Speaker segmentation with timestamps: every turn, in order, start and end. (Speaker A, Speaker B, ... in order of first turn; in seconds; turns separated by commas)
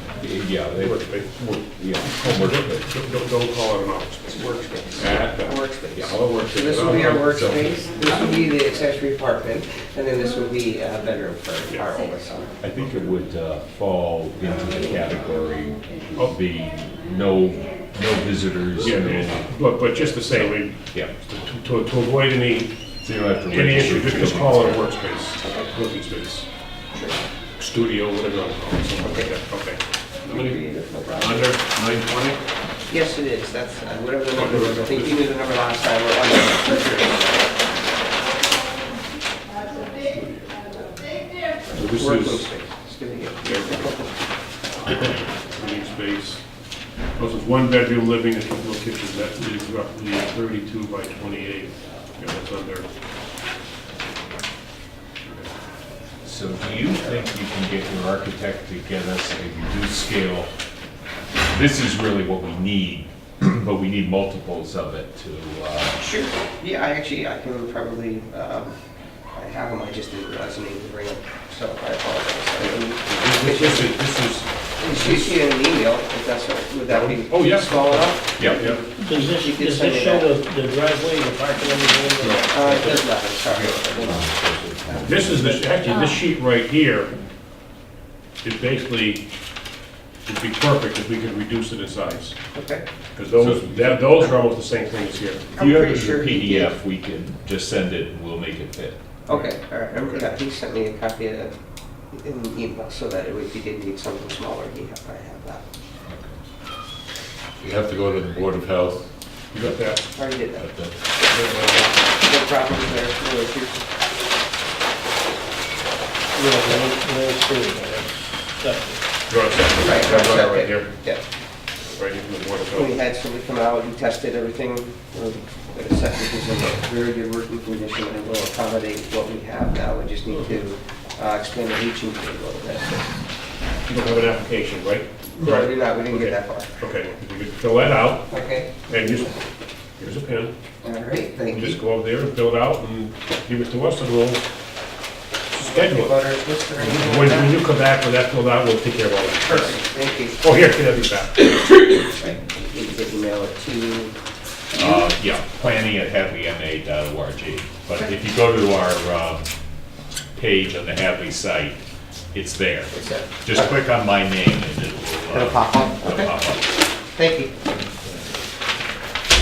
Speaker A: 0.2-2.9, Speaker B: 0.7-1.3, Speaker B: 2.0-8.2, Speaker C: 4.2-12.6, Speaker A: 12.6-21.1, Speaker B: 18.8-22.7, Speaker A: 23.0-24.9, Speaker B: 23.5-26.5, Speaker C: 25.4-25.7, Speaker B: 27.6-30.6, Speaker C: 29.0-29.3, Speaker C: 30.2-31.6, Speaker B: 31.1-32.4, Speaker C: 32.9-37.3, Speaker B: 34.4-35.2, Speaker B: 40.0-40.5, Speaker B: 41.7-42.5, Speaker C: 41.7-44.0, Speaker B: 43.5-43.9, Speaker B: 44.9-46.4, Speaker B: 47.2-52.9, Speaker A: 56.2-60.5, Speaker A: 61.5-66.0, Speaker C: 66.0-68.8, Speaker C: 69.3-74.0, Speaker B: 72.6-75.4, Speaker C: 74.8-80.3, Speaker B: 76.9-78.8, Speaker A: 78.4-78.6, Speaker D: 79.0-83.0, Speaker B: 82.2-82.9, Speaker C: 82.5-85.8, Speaker B: 83.5-83.8, Speaker A: 84.1-84.5, Speaker B: 85.0-87.2, Speaker B: 88.4-89.2, Speaker B: 90.2-92.4, Speaker C: 92.5-92.8, Speaker B: 93.2-95.5, Speaker E: 93.4-93.8, Speaker C: 95.5-96.8, Speaker A: 95.6-99.0, Speaker C: 99.3-101.5, Speaker B: 99.3-100.3, Speaker C: 102.1-105.6, Speaker A: 106.1-106.4, Speaker E: 107.6-109.1, Speaker B: 109.5-110.0, Speaker C: 110.1-110.6, Speaker E: 110.6-111.0, Speaker B: 111.3-112.0, Speaker C: 112.2-113.8, Speaker D: 116.3-119.0, Speaker B: 119.3-120.9, Speaker C: 119.8-121.2, Speaker B: 122.0-123.0, Speaker C: 122.7-133.0, Speaker B: 130.3-130.6, Speaker B: 133.9-138.3, Speaker C: 135.4-136.7, Speaker C: 138.3-138.7, Speaker B: 138.9-139.3, Speaker B: 140.0-140.5, Speaker C: 140.8-141.8, Speaker B: 141.5-144.5, Speaker B: 145.5-146.2, Speaker C: 145.6-147.6, Speaker B: 146.8-149.8, Speaker C: 149.4-150.4, Speaker B: 150.4-151.5, Speaker C: 151.9-154.1, Speaker A: 154.7-159.5, Speaker A: 160.4-161.8, Speaker A: 162.3-166.7, Speaker C: 162.9-163.7, Speaker C: 165.3-166.3, Speaker C: 167.1-167.5